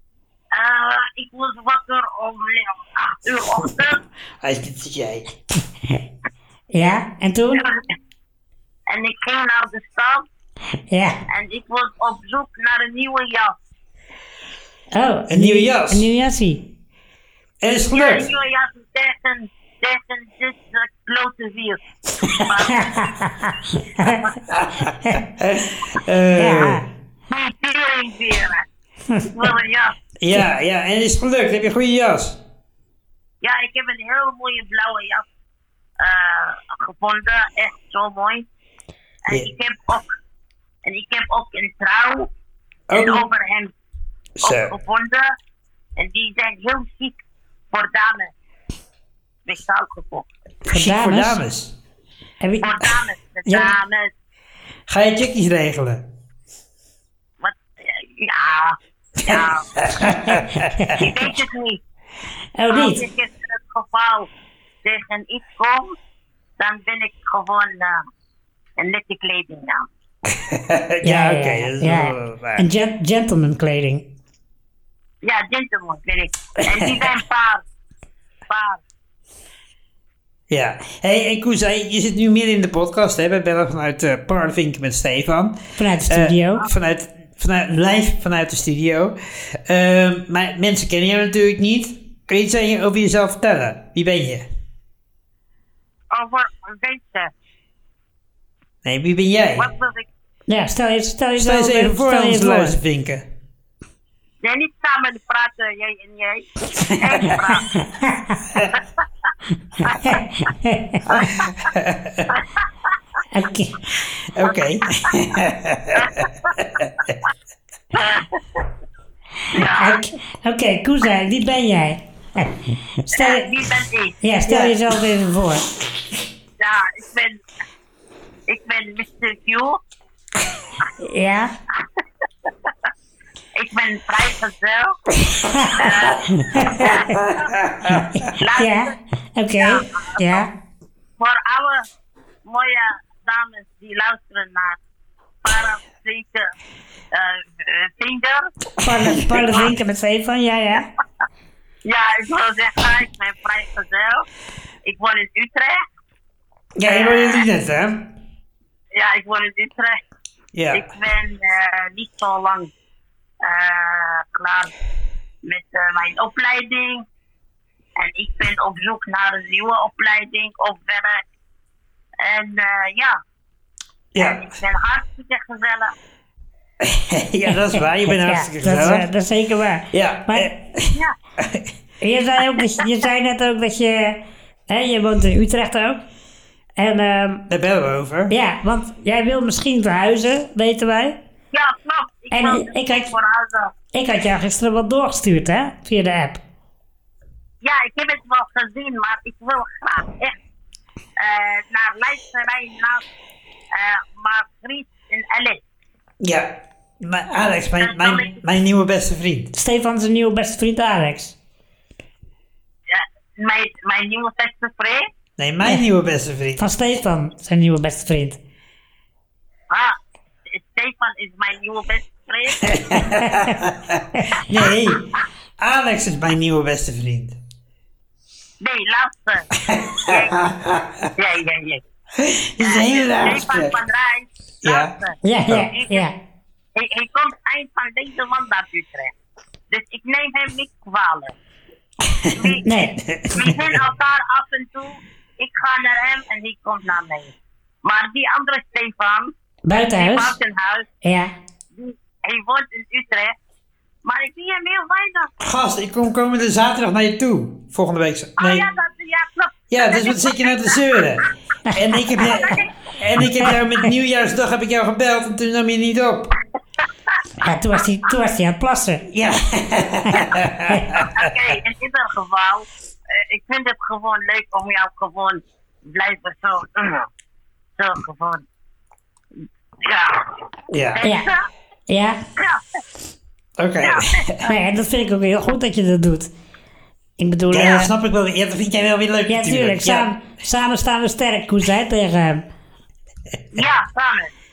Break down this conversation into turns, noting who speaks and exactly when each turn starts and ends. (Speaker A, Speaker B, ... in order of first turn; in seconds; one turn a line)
Speaker A: 0.5-4.0
Speaker B: 4.4-5.3
Speaker C: 6.7-7.6
Speaker A: 7.5-7.8
Speaker A: 8.9-10.3
Speaker C: 10.9-11.2
Speaker A: 11.3-13.5
Speaker C: 14.9-16.6
Speaker B: 15.3-16.1
Speaker B: 17.6-18.3
Speaker A: 17.9-21.8
Speaker B: 22.2-22.5
Speaker A: 22.3-23.1
Speaker C: 22.7-24.2
Speaker A: 24.0-24.4
Speaker B: 24.5-26.9
Speaker C: 26.4-26.8
Speaker A: 27.3-28.6
Speaker A: 29.3-29.9
Speaker B: 30.2-32.4
Speaker A: 33.4-35.2
Speaker A: 36.0-38.5
Speaker A: 39.2-40.1
Speaker A: 40.8-42.3
Speaker B: 42.9-43.2
Speaker A: 42.9-43.7
Speaker B: 44.4-44.7
Speaker A: 44.4-45.3
Speaker A: 46.0-47.2
Speaker A: 47.7-48.3
Speaker A: 49.5-50.2
Speaker B: 50.6-51.7
Speaker C: 50.7-51.4
Speaker C: 52.4-52.9
Speaker A: 52.6-54.1
Speaker B: 54.9-56.1
Speaker A: 57.4-59.8
Speaker B: 59.2-61.1
Speaker A: 60.9-61.8
Speaker C: 62.6-63.0
Speaker A: 62.7-64.3
Speaker A: 64.8-66.0
Speaker A: 66.6-68.0
Speaker A: 68.8-69.9
Speaker B: 70.2-72.6
Speaker C: 71.0-74.1
Speaker A: 75.2-77.6
Speaker B: 76.6-77.1
Speaker A: 78.5-78.8
Speaker B: 80.5-94.5
Speaker C: 85.8-86.7
Speaker A: 96.1-97.3
Speaker B: 98.8-99.7
Speaker A: 99.6-100.1
Speaker C: 100.5-102.8
Speaker B: 101.4-103.2
Speaker A: 104.4-107.8
Speaker B: 106.9-107.3
Speaker C: 107.8-108.4
Speaker A: 109.8-110.2
Speaker C: 109.9-111.4
Speaker B: 111.1-112.3
Speaker C: 113.3-113.8
Speaker B: 114.0-117.1
Speaker A: 114.5-115.2
Speaker A: 115.9-116.7
Speaker A: 117.9-118.6
Speaker A: 119.5-120.0
Speaker C: 119.5-123.4
Speaker A: 123.1-124.7
Speaker C: 124.2-125.7
Speaker A: 126.6-127.4
Speaker A: 128.5-129.8
Speaker C: 131.0-131.5
Speaker A: 133.6-135.0
Speaker C: 135.4-136.9
Speaker A: 135.7-137.5
Speaker B: 136.8-138.3
Speaker C: 138.1-140.5
Speaker A: 138.3-138.9
Speaker A: 139.6-140.4
Speaker A: 141.2-141.9
Speaker A: 142.4-144.8
Speaker A: 145.4-146.5
Speaker A: 147.1-148.5
Speaker C: 148.8-150.9
Speaker B: 148.8-149.7
Speaker A: 151.8-154.2
Speaker A: 154.8-155.8
Speaker B: 156.8-158.1
Speaker A: 156.9-157.4
Speaker A: 158.9-160.0
Speaker B: 160.5-160.9
Speaker A: 160.7-162.7
Speaker A: 163.4-164.7
Speaker A: 165.4-167.1
Speaker A: 168.0-171.2
Speaker A: 172.2-173.2
Speaker B: 174.1-174.5
Speaker A: 174.2-175.9
Speaker B: 176.8-179.1
Speaker C: 178.1-180.5
Speaker B: 179.9-181.7
Speaker C: 182.0-186.0
Speaker C: 186.8-187.4
Speaker B: 187.5-188.3
Speaker C: 188.3-191.2
Speaker A: 191.5-193.7
Speaker C: 192.3-193.1
Speaker C: 193.9-196.4
Speaker A: 197.6-200.3
Speaker A: 201.2-203.0
Speaker A: 203.7-205.6
Speaker B: 206.2-209.5
Speaker A: 207.8-208.4
Speaker C: 209.5-211.4
Speaker A: 212.9-215.1
Speaker B: 215.4-216.7
Speaker C: 216.6-218.4
Speaker A: 219.7-220.0
Speaker A: 220.5-223.2
Speaker B: 222.6-227.4
Speaker A: 228.6-230.4
Speaker B: 229.6-231.1
Speaker A: 231.2-231.8
Speaker B: 232.2-233.7
Speaker A: 232.6-236.1
Speaker B: 234.6-234.9
Speaker C: 235.2-236.1
Speaker A: 236.7-239.1
Speaker A: 239.7-241.3
Speaker B: 242.0-243.8
Speaker A: 242.3-242.6
Speaker C: 242.6-243.0
Speaker A: 243.3-249.3
Speaker C: 249.7-250.3
Speaker A: 249.9-250.9
Speaker C: 251.0-251.3
Speaker A: 251.7-253.3
Speaker A: 254.0-255.3
Speaker B: 255.4-258.6
Speaker A: 258.4-261.2
Speaker B: 259.7-266.3
Speaker A: 262.1-262.7
Speaker C: 267.4-269.0
Speaker B: 269.1-271.4
Speaker C: 270.2-270.9
Speaker A: 271.1-277.1
Speaker A: 277.8-278.4
Speaker A: 279.8-281.4
Speaker B: 280.7-281.0
Speaker C: 281.0-281.3
Speaker C: 281.9-282.2
Speaker A: 282.4-282.8
Speaker B: 283.6-284.5
Speaker A: 283.8-284.5
Speaker C: 284.4-286.3
Speaker C: 287.2-287.9
Speaker B: 287.5-290.1
Speaker C: 289.3-292.4
Speaker A: 293.5-294.3